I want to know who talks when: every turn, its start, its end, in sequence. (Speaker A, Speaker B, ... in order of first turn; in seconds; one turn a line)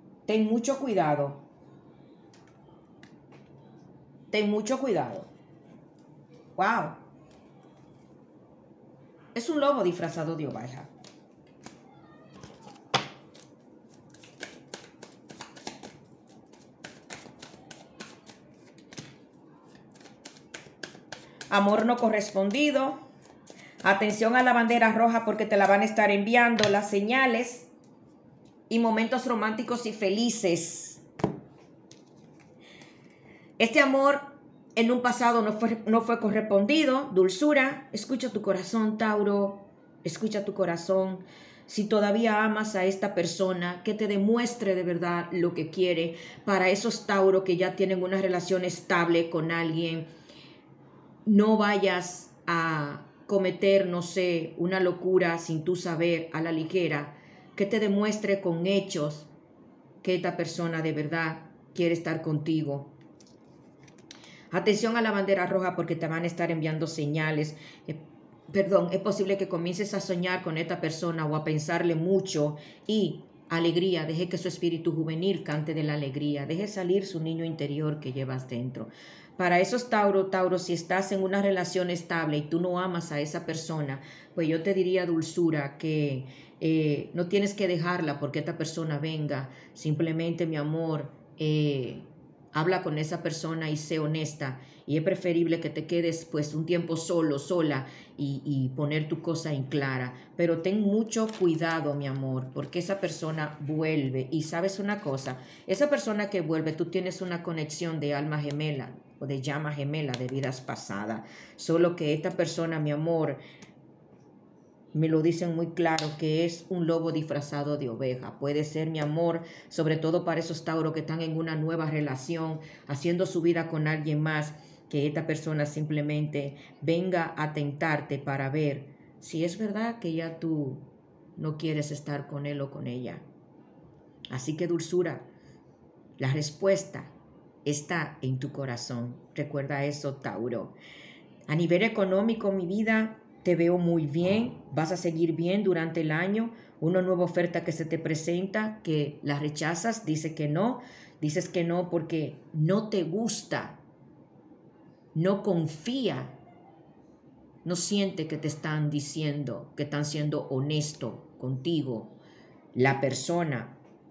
Speaker A: 0.3-1.4
Speaker A: 4.3-5.3
Speaker A: 6.6-7.0
Speaker A: 9.3-10.9
Speaker A: 21.5-23.0
Speaker A: 23.8-27.7
Speaker A: 28.7-31.0
Speaker A: 33.6-50.1
Speaker A: 51.3-59.3
Speaker A: 60.0-62.9
Speaker A: 64.5-113.4
Speaker A: 114.9-130.8
Speaker A: 131.4-133.2
Speaker A: 134.3-135.3
Speaker A: 136.2-137.1
Speaker A: 137.7-140.8
Speaker A: 141.5-153.8
Speaker A: 155.1-156.4
Speaker A: 157.7-162.2
Speaker A: 162.7-163.8